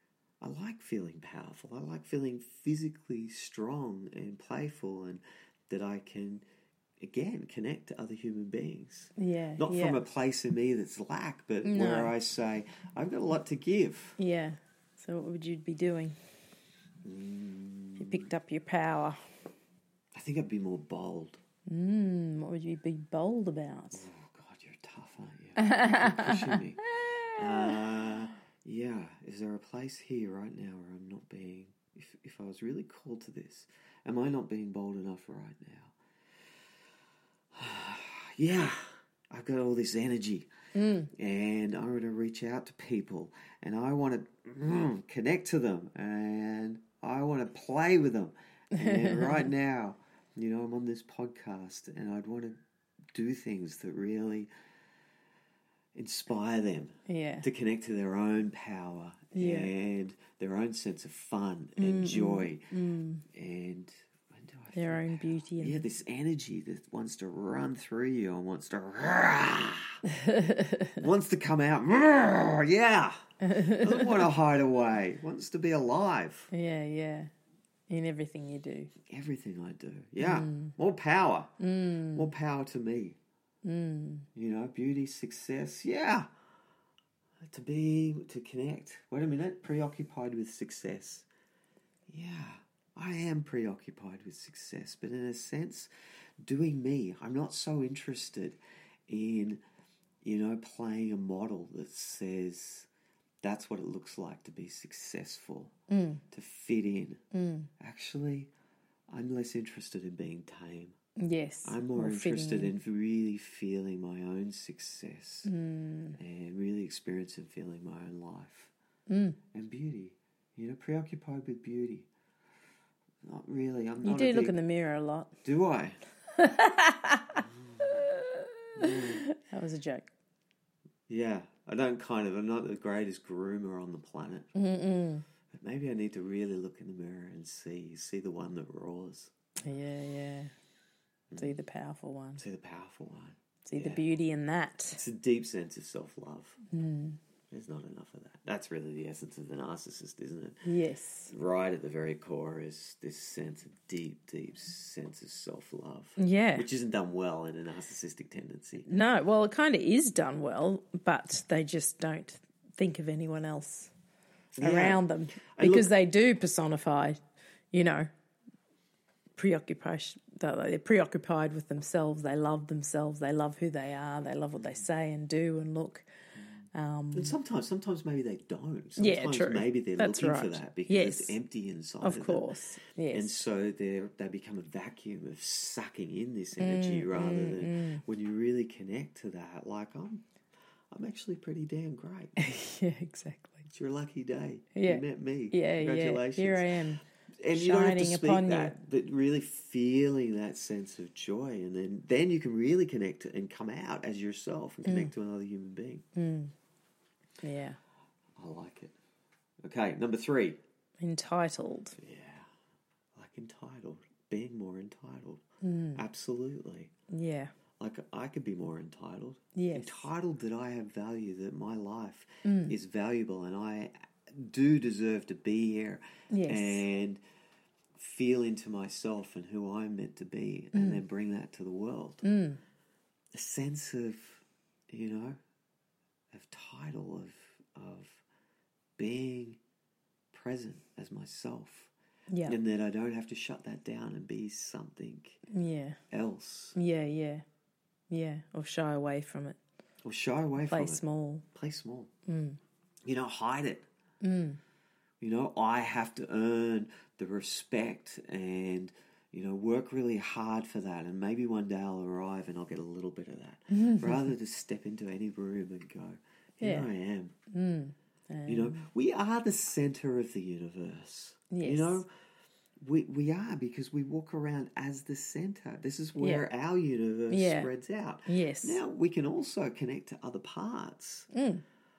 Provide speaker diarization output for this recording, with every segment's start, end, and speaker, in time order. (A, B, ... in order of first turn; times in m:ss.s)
0:00.4-0:06.4 A
0:07.0-0:14.2 A
0:09.2-0:10.0 B
0:11.6-0:12.1 B
0:14.2-0:16.2 B
0:17.0-0:18.3 A
0:18.0-0:19.2 B
0:20.1-0:21.4 A
0:21.7-0:24.1 B
0:23.9-0:36.0 A
0:25.6-0:27.8 B
0:37.5-0:40.5 A
0:40.8-0:41.1 B
0:41.1-0:52.6 A
0:48.7-0:49.5 B
0:53.1-0:54.5 A
0:55.9-1:02.7 A
0:57.1-0:57.5 B
0:59.3-0:59.7 B
1:01.8-1:03.2 B
1:03.3-1:10.0 A
1:04.7-1:05.8 B
1:10.1-1:11.0 B
1:11.0-1:16.5 A
1:13.4-1:14.3 B
1:16.5-1:17.3 B
1:17.9-1:18.9 B
1:19.0-1:21.5 A
1:20.2-1:20.8 B
1:21.6-1:22.3 B
1:22.1-1:23.2 A
1:23.6-1:24.3 B
1:24.4-1:26.3 A
1:27.4-1:31.3 A
1:32.1-1:35.9 A
1:36.4-1:39.6 A
1:40.2-1:42.9 A
1:43.4-1:45.7 A
1:45.9-1:46.2 B
1:46.3-1:47.2 A
1:47.3-1:47.7 B
1:47.8-1:48.5 A
1:49.1-1:51.0 A
1:51.2-1:52.7 B
1:51.6-1:55.5 A
1:55.4-1:56.2 B
1:56.2-1:58.7 A
1:59.1-1:59.4 B
1:59.5-2:02.1 A
2:03.2-2:04.6 A
2:04.0-2:05.3 B
2:05.4-2:06.0 A
2:06.4-2:10.1 B
2:07.4-2:08.0 A
2:08.8-2:09.2 A
2:11.1-2:14.5 A
2:14.6-2:15.2 B
2:15.5-2:19.3 A
2:19.6-2:20.5 B
2:21.4-2:22.4 B
2:22.4-2:24.0 A
2:23.6-2:25.0 B
2:24.9-2:26.6 A
2:26.7-2:27.2 B
2:27.5-2:30.6 A
2:30.6-2:31.3 B
2:31.3-2:38.9 A
2:36.2-2:36.7 B
2:38.9-2:43.9 B
2:44.6-2:45.9 A
2:44.6-2:47.2 B
2:47.7-2:48.1 B
2:49.4-2:56.1 B
2:54.6-2:54.8 A
2:56.7-2:57.4 B
2:57.2-3:02.5 A
2:59.0-3:01.4 B
3:02.0-3:03.4 B
3:03.1-3:10.2 A
3:06.6-3:08.0 B
3:10.9-3:12.4 A
3:12.4-3:13.6 B
3:13.6-3:16.7 A
3:14.8-3:18.8 B
3:17.4-3:26.0 A
3:24.8-3:25.1 B
3:26.2-3:26.5 B
3:27.4-3:27.8 B
3:28.4-3:29.0 A
3:29.6-3:30.6 A
3:31.0-3:32.0 B
3:32.0-3:32.5 A
3:33.2-3:35.4 A
3:35.6-3:36.0 B
3:36.0-3:36.9 A
3:37.1-3:37.5 B
3:37.8-3:47.2 A
3:39.6-3:40.0 B
3:42.4-3:42.8 B
3:46.3-3:46.8 B
3:48.0-3:52.2 A
3:50.7-3:51.0 B
3:52.2-3:52.6 B
3:53.3-3:55.4 A
3:56.3-3:58.2 A
3:59.0-3:59.6 A
4:00.3-4:01.9 A
4:02.3-4:02.6 B
4:02.5-4:05.4 A
4:05.5-4:06.0 B
4:06.1-4:06.8 A
4:06.8-4:07.4 B
4:08.1-4:09.6 B
4:10.0-4:12.1 A
4:10.7-4:11.4 B
4:12.3-4:12.6 B
4:13.1-4:13.9 A
4:14.2-4:14.6 B
4:15.2-4:27.4 A
4:23.7-4:24.3 B
4:26.6-4:26.9 B
4:27.5-4:28.9 B
4:28.5-4:32.1 A
4:31.5-4:32.0 B
4:32.8-4:41.3 A
4:36.2-4:36.5 B
4:37.3-4:37.7 B
4:38.3-4:38.8 B
4:41.3-4:41.6 B